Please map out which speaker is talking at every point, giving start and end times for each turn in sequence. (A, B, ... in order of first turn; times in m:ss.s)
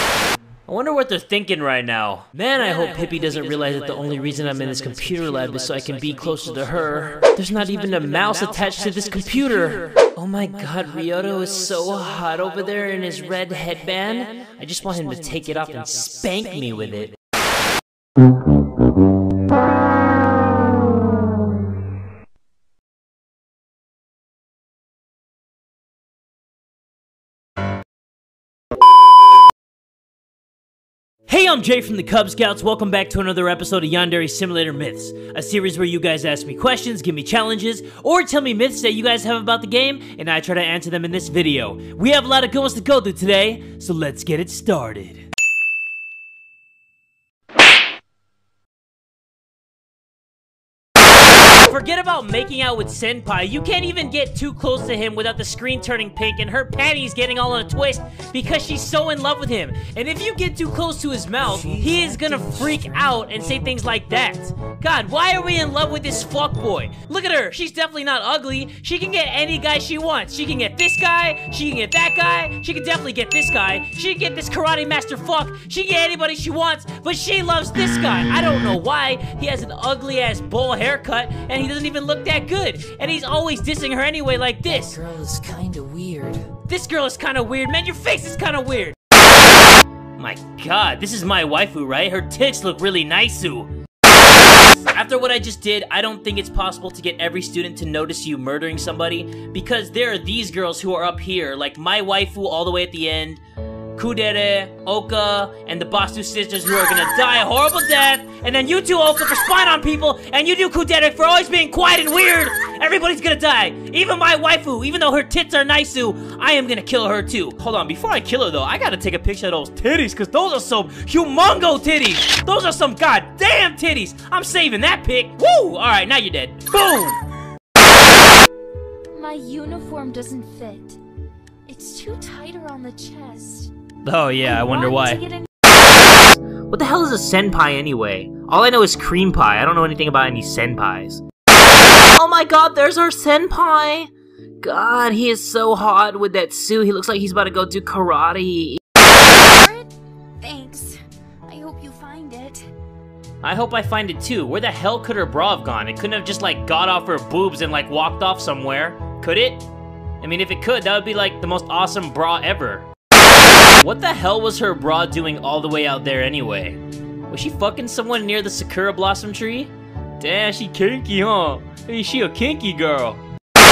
0:00.7-0:17.2 A
0:31.3-0:45.3 A
0:51.7-1:25.0 A
1:01.4-1:02.9 B
1:24.7-1:26.5 B
1:26.7-1:29.0 A
1:30.2-1:33.7 A
1:34.7-1:43.4 A
1:44.0-2:07.2 A
2:09.1-2:11.0 C
2:11.7-2:13.7 C
2:14.0-2:15.2 A
2:14.4-2:15.5 C
2:16.7-2:21.2 A
2:22.2-2:24.1 A
2:24.6-2:28.8 A
2:29.3-2:32.7 C
2:33.4-2:39.7 A
2:40.2-2:42.9 A
2:43.8-2:46.8 A
2:47.3-2:53.2 A